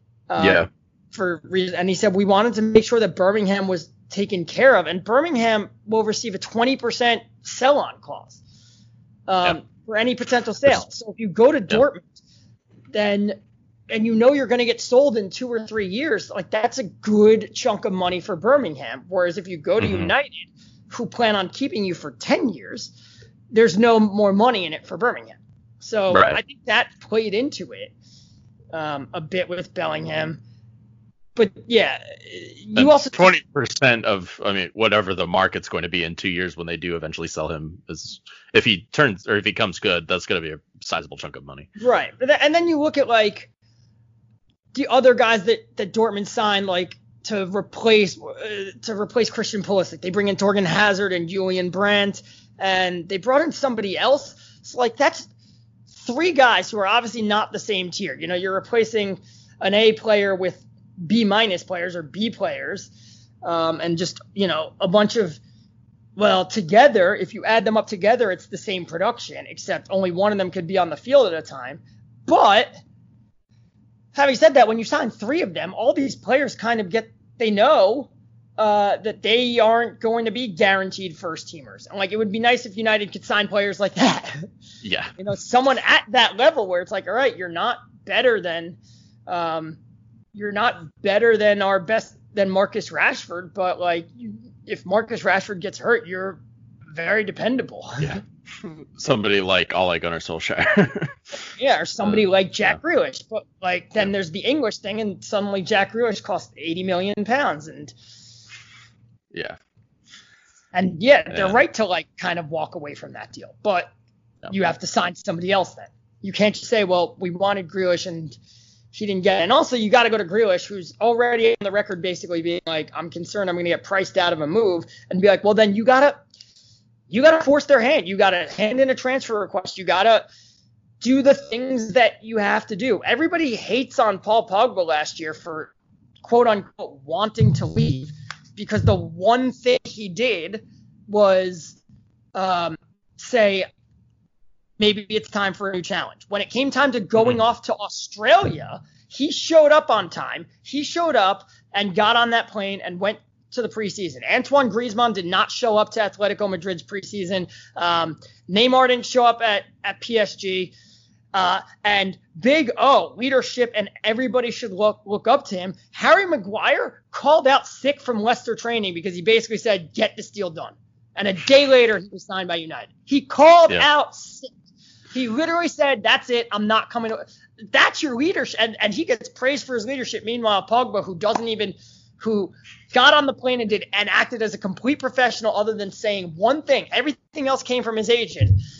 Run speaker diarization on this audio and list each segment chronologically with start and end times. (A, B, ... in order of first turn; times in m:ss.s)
0:00.3-0:08.4 A
0:00.4-0:00.7 B
0:09.3-0:12.1 A
0:12.9-0:13.4 A
0:13.9-0:22.9 A
0:19.8-0:20.1 B
0:23.5-0:27.9 A
0:26.1-0:26.4 B
0:28.7-0:30.4 A
0:31.4-0:33.3 A
0:32.8-0:41.7 B
0:41.8-0:43.5 A
0:44.7-0:55.3 A
0:55.9-1:02.9 A
1:03.4-1:05.4 A
1:06.2-1:12.7 A
1:14.1-1:24.5 A
1:24.8-1:25.1 B
1:25.2-1:29.8 A
1:30.3-1:36.4 A
1:36.9-1:38.2 A
1:38.0-1:41.2 B
1:41.6-1:47.9 A
1:42.0-1:42.8 B
1:49.3-1:49.6 B
1:50.7-1:53.9 A
1:51.3-1:51.6 B
1:54.5-1:58.4 A
1:58.9-2:06.2 A
2:07.1-2:10.2 A
2:11.0-2:21.8 A
2:22.3-2:23.7 A
2:24.8-2:40.7 A
2:41.3-2:54.5 A
2:55.1-3:08.6 A